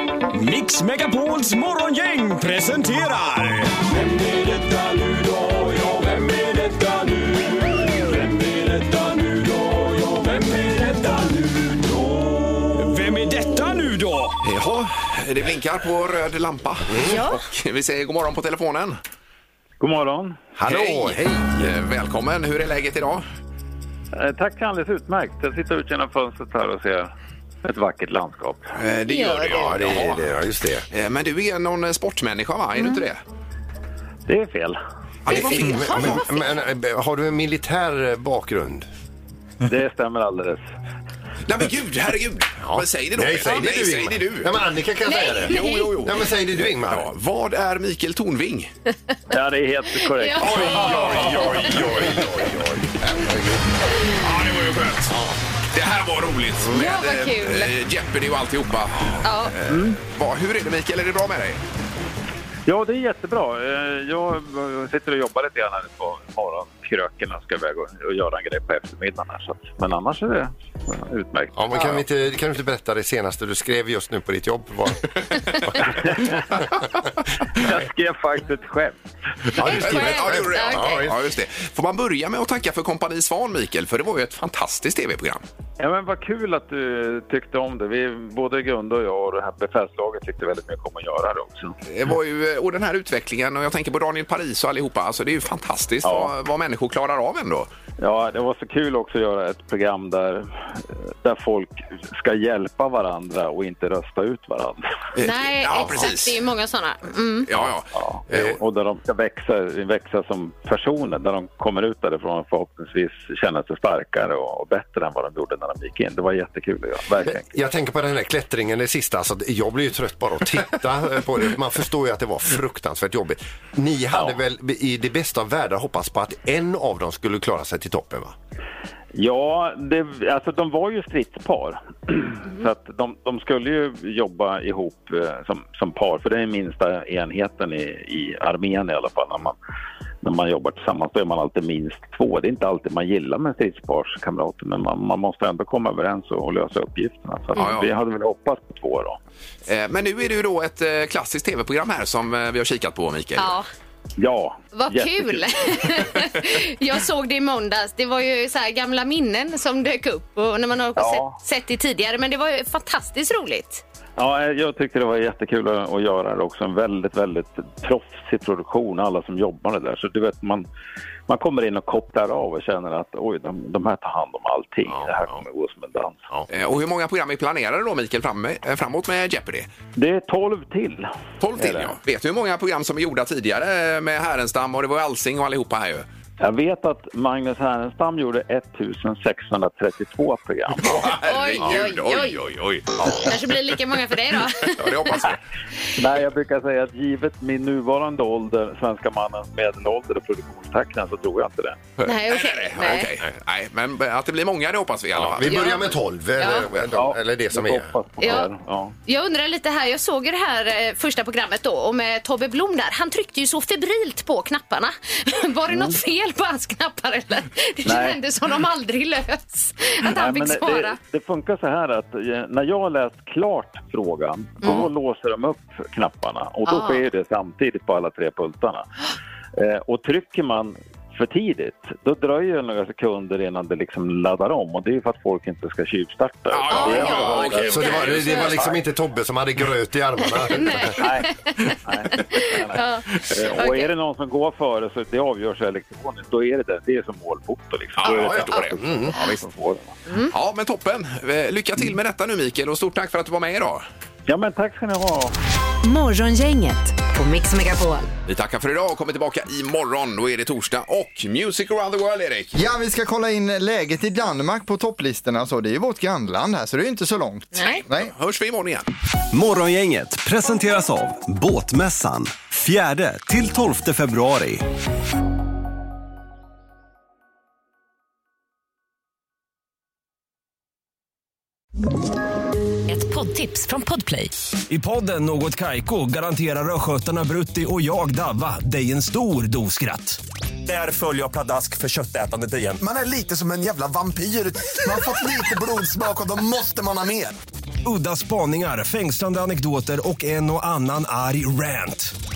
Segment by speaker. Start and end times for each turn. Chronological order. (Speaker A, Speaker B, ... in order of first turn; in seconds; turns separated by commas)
Speaker A: 0.3-14.4, Speaker B: 14.4-19.0, Speaker C: 16.9-17.2, Speaker D: 17.0-17.4, Speaker E: 19.8-20.5, Speaker C: 20.6-21.7, Speaker B: 20.6-23.2, Speaker E: 24.1-27.1, Speaker E: 27.6-28.6, Speaker B: 28.8-30.2, Speaker D: 29.0-29.9, Speaker C: 29.5-30.9, Speaker B: 30.9-33.2, Speaker D: 32.7-33.0, Speaker E: 34.3-34.8, Speaker B: 35.2-36.2, Speaker C: 35.3-38.9, Speaker D: 35.3-36.3, Speaker E: 39.6-40.6, Speaker B: 41.5-44.5, Speaker C: 42.6-47.1, Speaker D: 45.0-46.0, Speaker B: 45.5-48.7, Speaker E: 49.3-50.5, Speaker D: 50.0-51.9, Speaker C: 50.4-53.6, Speaker B: 50.9-52.2, Speaker B: 53.0-53.3, Speaker D: 54.0-54.5, Speaker B: 54.0-55.1, Speaker C: 55.1-55.3, Speaker B: 55.7-61.6, Speaker D: 56.7-57.7, Speaker D: 59.2-59.5, Speaker E: 59.7-60.0, Speaker E: 62.6-71.6, Speaker C: 71.5-76.5, Speaker E: 77.6-79.0, Speaker C: 79.5-81.1, Speaker B: 79.5-85.4, Speaker D: 79.6-81.1, Speaker E: 85.8-91.8, Speaker B: 91.8-97.7, Speaker E: 96.0-96.3, Speaker E: 98.0-104.9, Speaker B: 105.2-106.5, Speaker D: 105.2-107.5, Speaker B: 107.5-108.6, Speaker E: 108.0-117.5, Speaker C: 117.2-128.3, Speaker E: 129.1-139.6, Speaker E: 140.2-149.2, Speaker D: 147.5-147.9, Speaker B: 147.5-147.9, Speaker B: 149.7-153.6, Speaker D: 153.4-153.7, Speaker E: 154.2-155.8, Speaker D: 154.7-163.8, Speaker E: 160.9-161.4, Speaker E: 164.2-170.7, Speaker E: 171.3-176.2, Speaker C: 174.9-175.4, Speaker B: 176.5-179.7, Speaker E: 179.9-182.0, Speaker B: 181.4-186.1, Speaker E: 186.4-191.1, Speaker B: 190.8-193.4, Speaker D: 191.2-192.4, Speaker D: 193.0-195.3, Speaker B: 194.6-195.4, Speaker E: 196.0-201.9, Speaker B: 202.0-205.8, Speaker D: 202.0-203.1, Speaker C: 205.1-208.3, Speaker D: 205.4-206.7, Speaker E: 206.9-208.9, Speaker D: 208.2-208.5, Speaker D: 209.1-221.0, Speaker E: 215.7-216.0, Speaker E: 217.8-218.2, Speaker E: 220.0-228.9, Speaker D: 224.6-224.9, Speaker D: 226.6-227.0, Speaker E: 229.5-238.7, Speaker B: 236.5-238.5, Speaker D: 236.7-238.7, Speaker C: 237.6-241.0, Speaker D: 240.2-243.9, Speaker E: 240.9-249.9, Speaker B: 247.9-249.5, Speaker C: 248.0-249.2, Speaker D: 250.1-250.3, Speaker B: 250.3-253.8, Speaker E: 254.2-255.3, Speaker F: 255.8-258.1, Speaker B: 258.2-262.6, Speaker G: 262.6-268.1, Speaker D: 267.5-267.8, Speaker B: 267.6-268.9, Speaker A: 269.3-274.6, Speaker F: 282.9-284.3, Speaker A: 284.7-290.2, Speaker A: 291.0-292.7, Speaker H: 292.7-297.3, Speaker A: 297.8-302.1